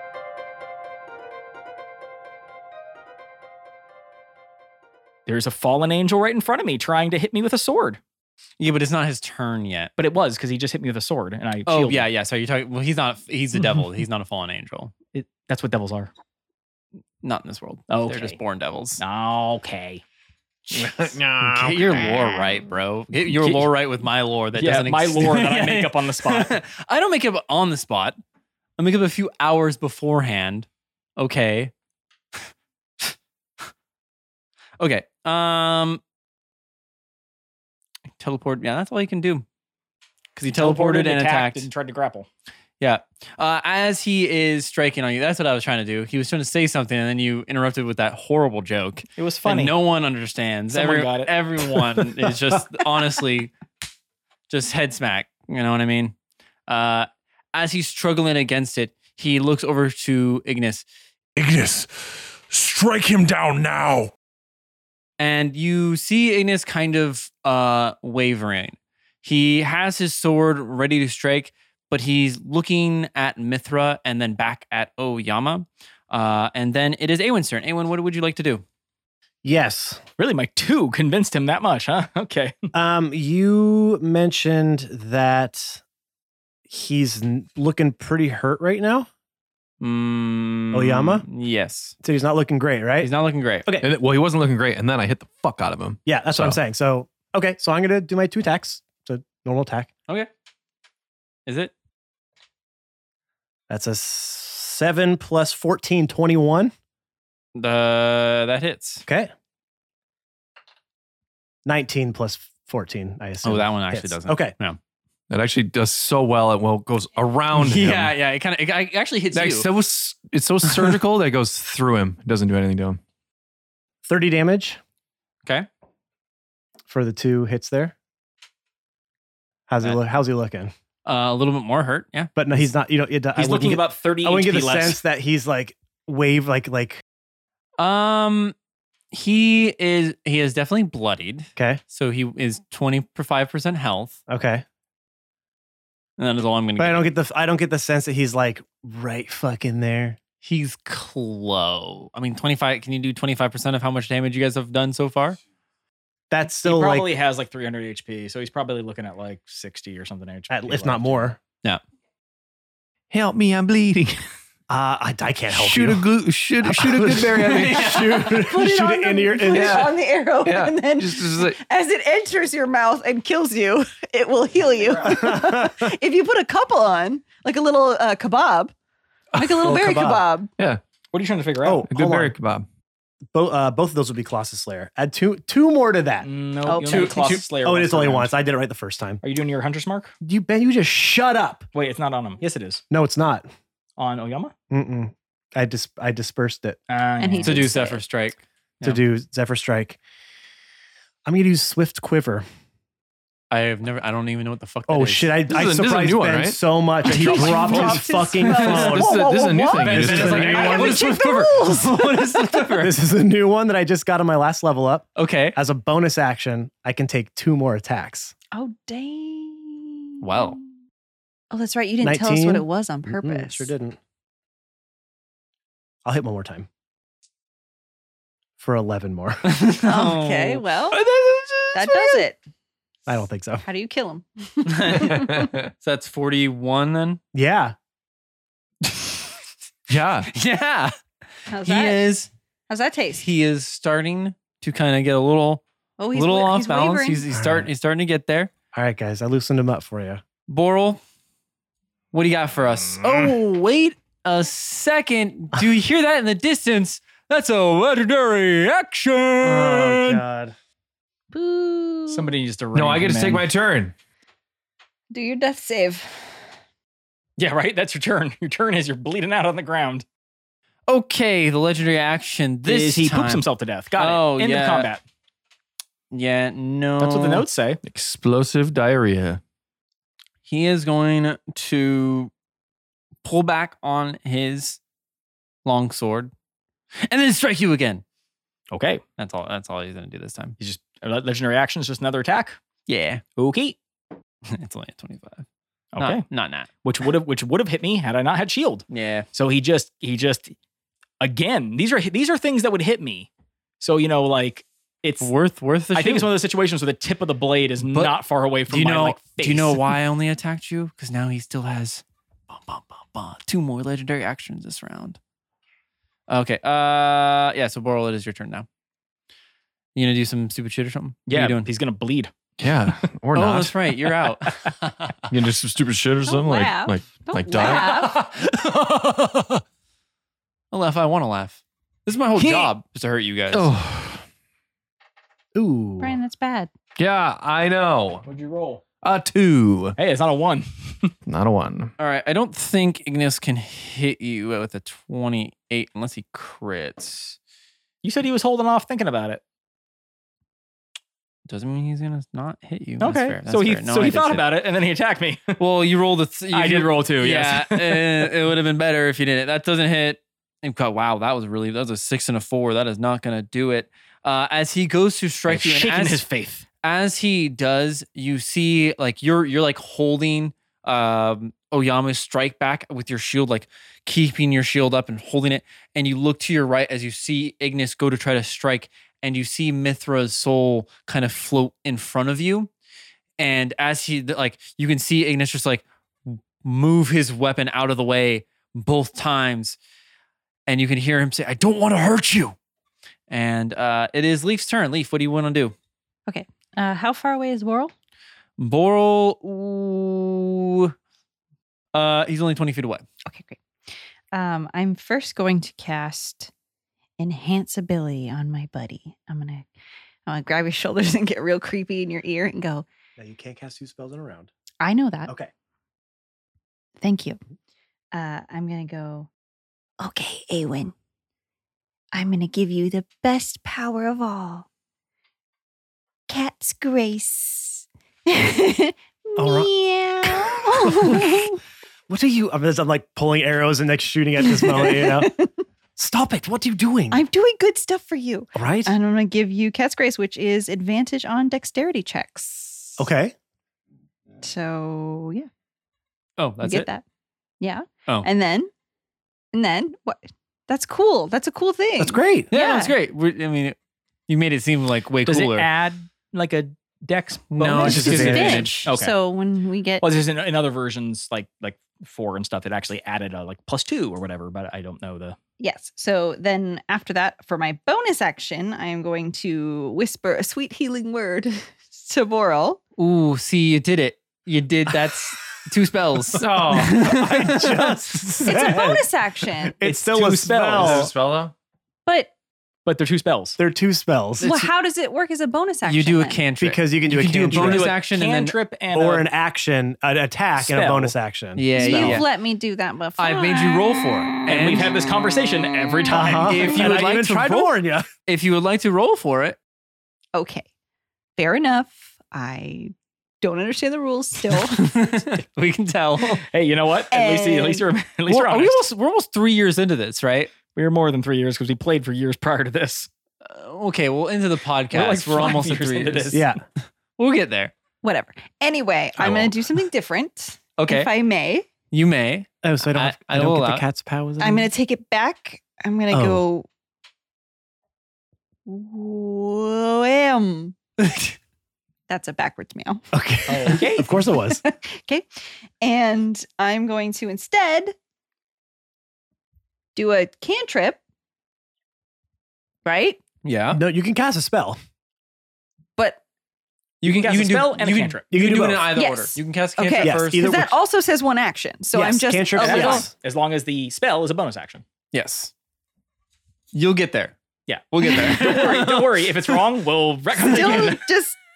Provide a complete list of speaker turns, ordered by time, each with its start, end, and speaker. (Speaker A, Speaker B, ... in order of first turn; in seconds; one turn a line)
Speaker A: 5.2-8.0
Speaker B: 8.6-9.9
Speaker A: 10.0-12.1
Speaker B: 11.7-14.9
Speaker A: 15.1-16.1
Speaker B: 17.2-19.0
Speaker A: 17.9-18.4
Speaker A: 19.0-20.0
Speaker C: 20.7-22.5
Speaker B: 20.7-28.2
Speaker A: 23.3-23.7
Speaker A: 24.6-26.6
Speaker B: 28.8-31.7
Speaker B: 34.8-36.0
Speaker B: 38.2-39.4
Speaker B: 40.3-41.7
Speaker A: 40.5-42.3
Speaker B: 42.8-53.5
Speaker A: 49.1-49.7
Speaker A: 50.7-51.3
Speaker B: 54.5-56.1
Speaker B: 56.7-60.8
Speaker D: 61.4-64.1
Speaker C: 62.6-63.1
Speaker B: 65.2-78.6
Speaker E: 79.4-80.0
Speaker A: 80.2-82.5
Speaker E: 82.7-85.8
Speaker E: 86.7-89.1
Speaker B: 89.8-92.0
Speaker E: 90.7-91.2
Speaker E: 92.0-93.1
Speaker B: 93.0-93.7
Speaker C: 93.8-96.6
Speaker E: 96.0-99.9
Speaker B: 101.5-101.7
Speaker E: 103.7-106.7
Speaker B: 107.5-109.0
Speaker E: 109.0-109.3
Speaker E: 111.6-114.5
Speaker B: 113.4-114.8
Speaker C: 115.3-118.1
Speaker B: 117.5-119.7
Speaker C: 119.3-123.0
Speaker B: 120.7-121.0
Speaker E: 124.0-124.8
Speaker E: 126.9-127.9
Speaker E: 129.7-130.7
Speaker B: 131.0-132.3
Speaker E: 132.3-137.0
Speaker A: 133.3-135.0
Speaker B: 137.8-138.5
Speaker B: 139.1-144.2
Speaker E: 141.6-141.8
Speaker E: 144.3-144.6
Speaker B: 146.2-147.1
Speaker E: 146.8-150.2
Speaker B: 150.4-155.4
Speaker E: 156.3-157.1
Speaker A: 156.5-161.3
Speaker E: 160.5-161.4
Speaker C: 163.1-164.2
Speaker E: 164.7-166.0
Speaker C: 165.5-168.3
Speaker E: 166.6-169.9
Speaker F: 168.1-178.7
Speaker C: 169.5-171.6
Speaker E: 175.0-175.9
Speaker C: 179.3-179.9
Speaker F: 179.4-180.5
Speaker E: 179.6-180.2
Speaker A: 181.1-181.8
Speaker E: 181.6-182.3
Speaker C: 181.9-182.6
Speaker E: 183.3-186.3
Speaker A: 186.2-188.3
Speaker F: 186.6-187.3
Speaker E: 186.8-189.2
Speaker B: 187.1-187.4
Speaker A: 189.2-190.1
Speaker E: 190.2-191.7
Speaker A: 191.7-192.8
Speaker E: 192.9-193.5
Speaker A: 194.0-194.5
Speaker E: 194.7-196.8
Speaker A: 196.9-197.7
Speaker F: 197.2-198.0
Speaker B: 197.4-199.0
Speaker E: 198.8-200.0
Speaker E: 201.2-202.4
Speaker B: 203.5-205.4
Speaker E: 204.9-209.2
Speaker C: 205.5-206.6
Speaker F: 207.1-212.4
Speaker C: 207.1-210.8
Speaker B: 208.6-208.9
Speaker B: 209.7-213.0
Speaker E: 210.2-210.9
Speaker E: 212.8-218.3
Speaker B: 215.2-215.6
Speaker F: 218.5-220.5
Speaker B: 220.2-220.6
Speaker F: 221.5-223.7
Speaker E: 222.0-224.0
Speaker E: 226.0-226.7
Speaker E: 228.6-229.4
Speaker B: 229.4-230.6
Speaker F: 229.8-231.0
Speaker C: 230.9-232.1
Speaker F: 231.7-232.4
Speaker E: 233.1-233.6
Speaker F: 233.6-235.5
Speaker B: 234.7-235.2
Speaker C: 234.9-235.7
Speaker B: 235.8-237.2
Speaker E: 237.3-237.7
Speaker B: 238.8-239.2
Speaker C: 239.9-240.3
Speaker B: 240.3-240.9
Speaker F: 241.5-242.1
Speaker B: 241.6-242.3
Speaker F: 242.7-243.3
Speaker B: 243.2-248.5
Speaker F: 246.0-247.2
Speaker E: 247.3-247.7
Speaker E: 248.7-250.2
Speaker B: 250.5-251.0
Speaker B: 252.1-260.2
Speaker E: 259.4-260.5
Speaker F: 261.3-262.3
Speaker A: 262.1-263.4
Speaker C: 262.7-263.9
Speaker F: 265.1-266.3
Speaker A: 267.4-270.0
Speaker B: 270.9-273.4
Speaker A: 272.6-275.0
Speaker B: 274.0-274.9
Speaker B: 276.1-277.4
Speaker A: 277.0-277.8
Speaker C: 277.8-279.4
Speaker B: 280.4-282.3
Speaker B: 283.2-284.8
Speaker B: 285.6-286.3
Speaker B: 287.0-288.0
Speaker A: 288.7-289.0
Speaker B: 289.2-290.6
Speaker A: 290.6-292.6
Speaker B: 292.9-293.2
Speaker A: 293.4-293.8
Speaker B: 294.5-295.4
Speaker A: 295.9-296.2
Speaker B: 296.0-296.7
Speaker A: 296.8-300.5
Speaker B: 298.9-299.2
Speaker A: 301.2-303.3
Speaker A: 303.8-305.3
Speaker B: 305.2-306.3
Speaker A: 305.9-309.9
Speaker B: 307.9-308.1
Speaker B: 308.7-315.2
Speaker B: 316.3-318.7
Speaker B: 319.9-321.7
Speaker A: 321.3-322.3
Speaker C: 322.6-324.0
Speaker B: 323.3-325.2
Speaker C: 325.3-328.1
Speaker F: 326.2-328.1
Speaker B: 327.6-329.6
Speaker B: 330.7-333.7
Speaker C: 332.4-332.7
Speaker C: 333.5-334.2
Speaker E: 335.5-336.2
Speaker F: 336.0-336.7
Speaker C: 337.0-338.2
Speaker A: 338.2-338.8
Speaker C: 339.0-339.9
Speaker A: 340.0-341.1
Speaker C: 341.3-341.9
Speaker B: 342.0-347.4
Speaker A: 348.0-349.4
Speaker B: 351.5-354.4
Speaker A: 353.0-355.6
Speaker B: 355.6-366.2
Speaker A: 356.5-358.3
Speaker A: 365.5-366.6
Speaker B: 366.8-382.7
Speaker B: 383.4-389.8
Speaker B: 390.7-392.6
Speaker B: 393.3-395.7
Speaker F: 396.3-397.9
Speaker B: 398.6-400.9
Speaker B: 401.9-403.0
Speaker F: 403.3-403.6
Speaker F: 404.3-406.5
Speaker F: 407.2-409.7
Speaker F: 410.3-412.9
Speaker E: 413.2-414.5
Speaker F: 414.8-415.3
Speaker F: 417.0-417.4
Speaker F: 418.1-419.3
Speaker F: 420.0-420.9
Speaker F: 422.1-424.6
Speaker F: 426.3-431.6
Speaker E: 429.4-429.7
Speaker E: 430.2-431.5
Speaker E: 432.1-435.3
Speaker F: 434.4-435.5
Speaker E: 435.9-437.2
Speaker F: 437.1-443.1
Speaker E: 438.5-438.9
Speaker E: 443.0-443.3
Speaker F: 444.4-445.5
Speaker B: 446.4-446.9
Speaker F: 446.6-447.0
Speaker F: 447.6-448.7
Speaker F: 449.5-452.9
Speaker E: 452.0-452.5
Speaker B: 452.5-453.8
Speaker B: 454.3-455.7
Speaker A: 455.2-459.1
Speaker B: 457.5-458.8
Speaker F: 457.7-460.1
Speaker E: 457.8-458.7
Speaker A: 460.0-465.4
Speaker F: 465.6-472.8
Speaker B: 473.0-477.9
Speaker C: 476.3-477.1
Speaker E: 476.5-479.1
Speaker F: 478.4-479.8
Speaker E: 479.6-481.1
Speaker A: 479.8-481.1
Speaker C: 480.7-481.5
Speaker F: 482.1-482.3
Speaker A: 482.9-483.6
Speaker E: 483.6-484.6
Speaker F: 484.4-486.4
Speaker B: 484.4-484.7
Speaker B: 485.8-488.6
Speaker E: 486.6-487.9
Speaker A: 487.5-489.3
Speaker E: 488.9-492.2
Speaker A: 490.6-491.1
Speaker B: 491.6-492.3
Speaker F: 491.7-494.2
Speaker B: 493.2-494.9
Speaker A: 494.4-496.7
Speaker E: 496.1-498.1
Speaker B: 496.2-497.7
Speaker B: 498.2-499.6
Speaker F: 500.3-500.6
Speaker F: 501.4-505.2
Speaker B: 504.5-506.4
Speaker A: 506.5-508.8
Speaker F: 507.1-507.8
Speaker B: 508.3-510.5
Speaker A: 510.7-513.1
Speaker B: 513.4-516.5
Speaker A: 514.9-516.4
Speaker E: 516.3-516.6
Speaker B: 517.1-517.7
Speaker F: 518.0-521.7
Speaker B: 519.2-519.5
Speaker B: 520.8-521.1
Speaker B: 521.9-523.8
Speaker E: 522.6-524.7
Speaker F: 524.4-526.6
Speaker E: 526.1-526.4
Speaker F: 528.6-530.8
Speaker B: 531.0-531.3
Speaker F: 532.1-533.0
Speaker E: 533.1-534.6
Speaker A: 533.5-534.1
Speaker F: 533.7-537.9
Speaker F: 539.9-541.0
Speaker F: 542.8-543.2
Speaker B: 543.4-543.8
Speaker E: 543.7-544.8
Speaker B: 547.0-550.6
Speaker A: 547.0-548.2
Speaker E: 548.3-548.9
Speaker F: 549.0-553.1
Speaker E: 550.0-550.7
Speaker E: 551.9-553.1
Speaker A: 552.6-554.8
Speaker B: 555.1-555.5
Speaker B: 556.7-557.3
Speaker A: 557.7-561.0
Speaker B: 557.9-559.3
Speaker F: 560.4-561.4